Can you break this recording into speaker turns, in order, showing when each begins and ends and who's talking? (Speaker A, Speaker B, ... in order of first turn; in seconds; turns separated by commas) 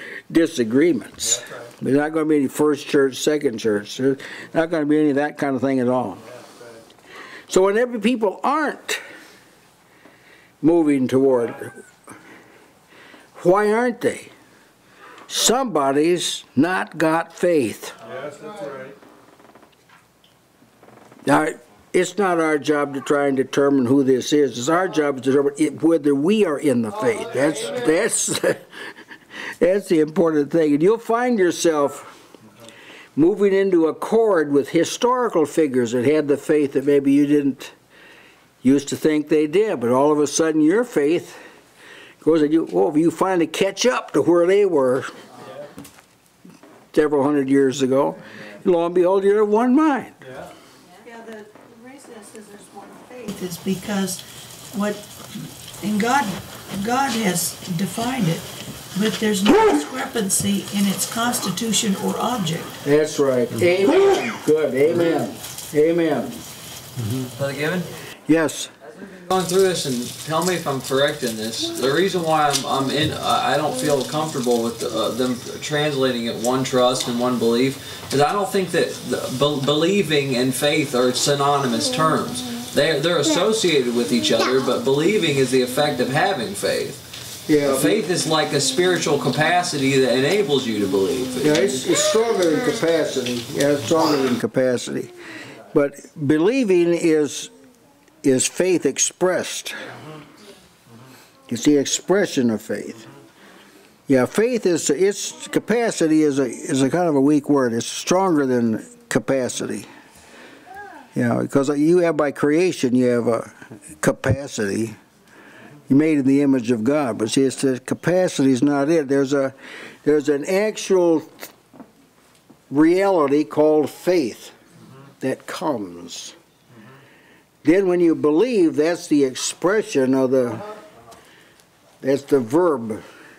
Speaker A: 0.3-6.2, Speaker B: 1.2-1.7, Speaker B: 6.2-6.8, Speaker A: 7.5-9.0, Speaker A: 10.6-11.7, Speaker A: 13.3-14.3, Speaker A: 15.3-17.9, Speaker B: 18.0-18.9, Speaker A: 21.2-28.6, Speaker A: 29.6-32.1, Speaker A: 33.1-37.7, Speaker A: 38.6-41.4, Speaker A: 42.2-45.1, Speaker A: 46.9-50.1, Speaker B: 50.2-50.5, Speaker C: 51.0-62.8, Speaker A: 62.8-66.4, Speaker B: 67.0-67.2, Speaker D: 67.3-67.9, Speaker A: 68.3-68.7, Speaker D: 69.1-87.0, Speaker A: 87.5-88.0, Speaker D: 87.6-91.7, Speaker A: 91.4-95.1, Speaker A: 95.7-97.5, Speaker A: 98.2-99.8, Speaker A: 101.5-103.0, Speaker A: 104.1-109.9, Speaker A: 111.1-115.0, Speaker A: 115.9-121.4, Speaker A: 122.7-124.5, Speaker A: 125.2-126.3, Speaker A: 127.6-130.6, Speaker A: 132.0-133.0